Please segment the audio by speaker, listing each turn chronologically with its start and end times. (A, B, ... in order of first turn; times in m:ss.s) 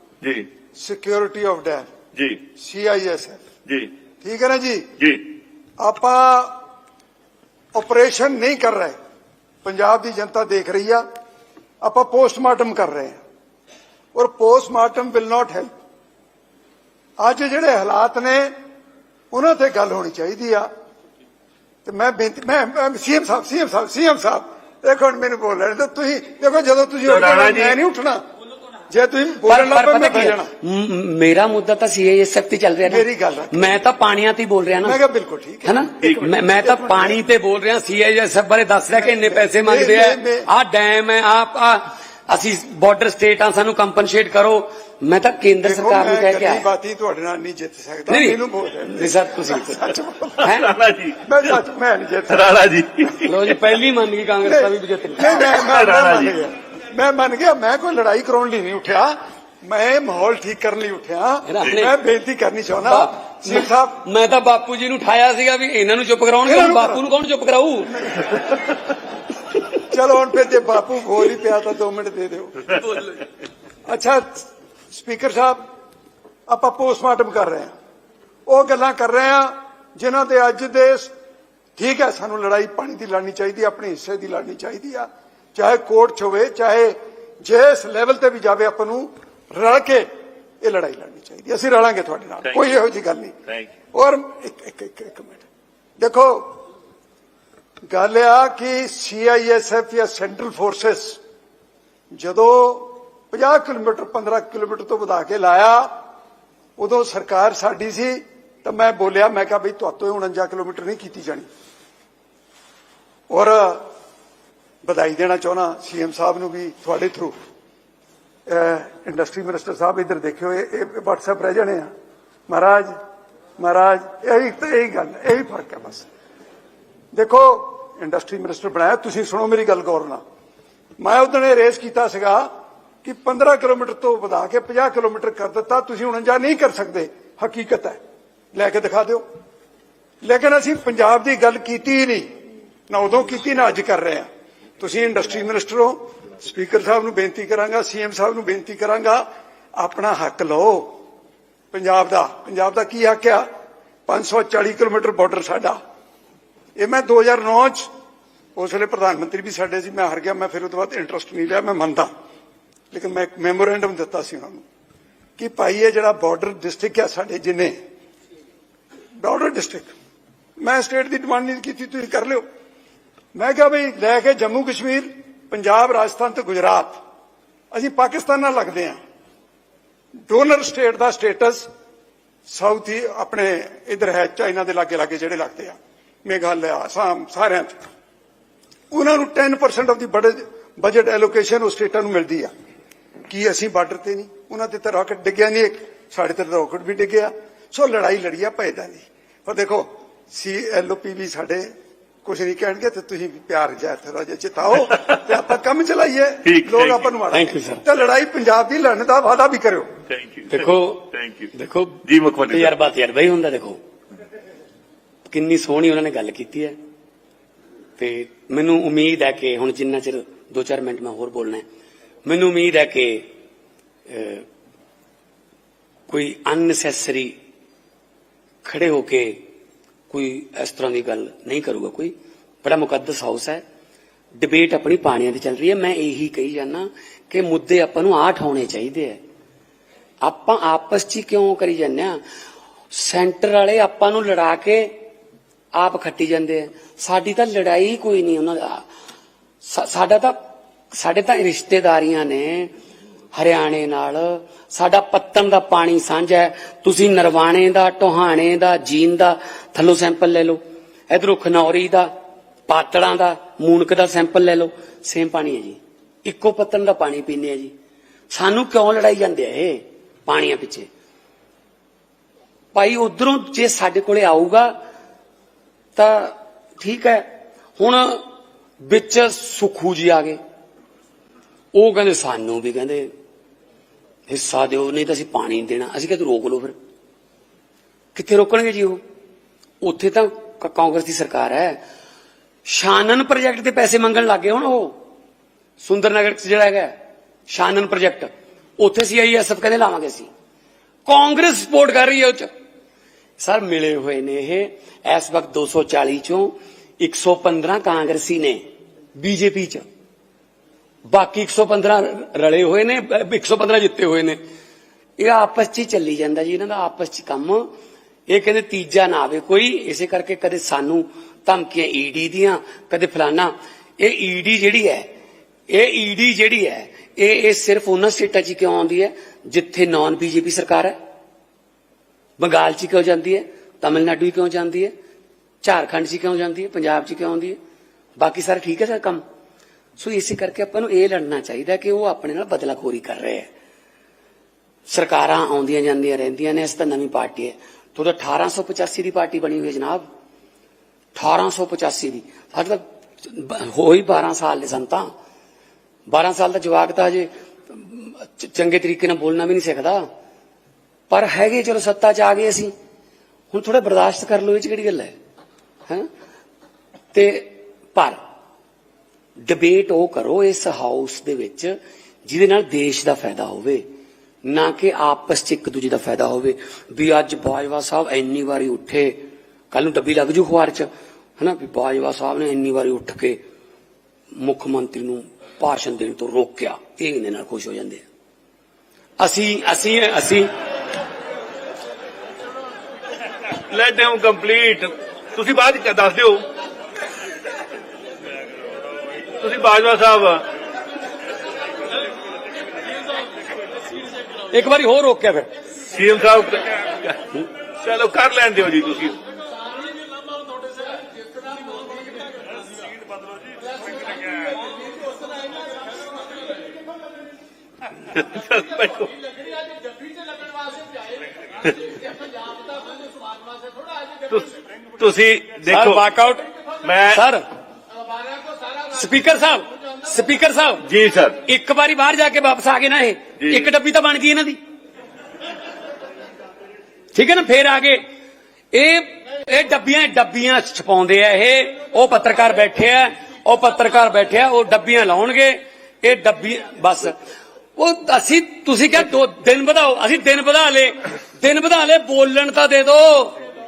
0:00.2-0:00.5 A
0:00.8-0:01.9 B
0:02.2-0:02.4 A
0:02.6-0:03.4 B
0:04.2-0:04.9 B
0:05.8-0:06.6 B
0:07.7-0:09.0 B
0:09.6-0:11.0 B
0:11.8-0:13.2 B
0:14.1-0:15.7 B
0:17.2-0:18.5 B
0:19.3-0:20.7 B
0:21.8-0:28.2 B
0:27.0-0:27.8 A
0:28.9-0:30.5 B
0:29.4-0:35.0 C
0:32.9-0:33.8 B
0:34.8-0:37.2 B
0:35.6-0:46.7 C
0:38.9-0:40.5 B
0:45.6-0:50.6 B
0:48.1-0:50.7 C
0:50.5-0:51.4 A
0:51.2-0:52.5 B
0:52.3-0:53.4 A
0:53.2-0:55.5 C
0:54.4-1:04.0 B
0:55.3-0:56.4 A
1:01.5-1:02.0 C
1:02.8-1:08.3 C
1:06.4-1:07.0 B
1:07.9-1:08.4 B
1:09.8-1:13.0 B
1:13.9-1:15.6 B
1:16.5-1:17.7 B
1:18.5-1:21.1 B
1:21.8-1:30.1 B
1:30.6-1:33.4 B
1:32.4-1:32.8 A
1:33.9-1:35.4 B
1:36.0-1:36.6 B
1:37.9-1:41.2 B
1:42.1-1:45.9 B
1:46.8-1:51.5 B
1:53.3-1:53.9 B
1:54.8-1:57.4 B
1:58.5-2:01.9 B
2:02.5-2:02.9 B
2:03.6-2:06.1 B
2:07.1-2:10.2 B
2:11.0-2:12.5 B
2:13.0-2:18.0 B
2:18.5-2:19.2 B
2:20.2-2:22.3 B
2:22.9-2:24.3 B
2:24.8-2:29.2 B
2:29.8-2:30.9 B
2:31.7-2:33.5 B
2:34.1-2:35.8 B
2:36.8-2:37.9 B
2:38.6-2:42.1 B
2:42.9-2:44.6 B
2:45.4-2:47.8 B
2:49.2-2:49.9 B
2:50.6-2:52.4 B
2:53.4-2:57.0 B
2:57.7-2:59.0 B
3:00.3-3:01.7 B
3:02.5-3:07.7 B
3:08.9-3:12.5 B
3:13.3-3:21.7 B
3:22.2-3:29.9 B
3:26.4-3:27.1 A
3:27.3-3:27.8 C
3:30.1-3:31.5 A
3:30.5-3:33.8 C
3:32.1-3:32.7 A
3:35.3-3:36.8 C
3:38.0-3:41.6 C
3:42.3-3:43.2 C
3:44.1-3:44.5 C
3:46.1-3:47.3 C
3:48.6-3:49.4 C
3:50.1-3:53.6 C
3:54.4-3:59.2 C
4:00.2-4:02.2 C
4:02.9-4:04.9 C
4:05.8-4:08.8 C
4:09.6-4:10.3 C
4:10.9-4:12.7 C
4:13.3-4:20.6 C
4:21.1-4:22.1 C
4:22.7-4:27.7 C
4:28.3-4:30.9 C
4:32.7-4:34.7 C
4:36.0-4:37.3 C
4:37.8-4:38.2 C
4:38.8-4:40.4 C
4:41.7-4:43.1 C
4:44.3-4:46.7 C
4:48.2-4:49.0 C
4:49.8-4:51.8 C
4:52.7-4:55.0 C
4:55.8-4:56.9 C
4:57.5-5:00.3 C
5:01.1-5:02.5 C
5:03.4-5:08.6 C
5:09.2-5:09.8 C
5:11.1-5:14.4 C
5:15.2-5:17.6 C
5:18.3-5:25.1 C
5:25.7-5:31.0 C
5:32.4-5:34.9 C
5:35.6-5:37.6 C
5:38.2-5:39.2 C
5:40.0-5:43.5 C
5:44.9-5:50.1 C
5:51.2-5:55.1 C
5:56.1-6:00.0 C
6:01.1-6:02.7 C
6:03.5-6:05.1 C
6:07.1-6:08.2 C
6:09.4-6:11.8 C
6:12.3-6:13.8 C
6:14.4-6:19.2 C
6:19.7-6:23.4 C
6:24.4-6:28.0 C
6:29.2-6:30.5 C
6:33.7-6:36.4 A
6:39.4-6:40.4 A
6:44.5-6:45.5 C
6:45.9-6:49.2 A
6:58.1-6:59.2 A
7:04.3-7:06.0 A
7:05.7-7:06.5 C
7:06.8-7:07.2 A
7:07.0-7:07.4 C
7:08.7-7:10.9 C
7:10.8-7:11.4 A
7:11.4-7:14.6 C
7:13.4-7:13.7 A
7:17.2-7:18.0 C
7:18.7-7:27.2 C
7:27.8-7:33.4 C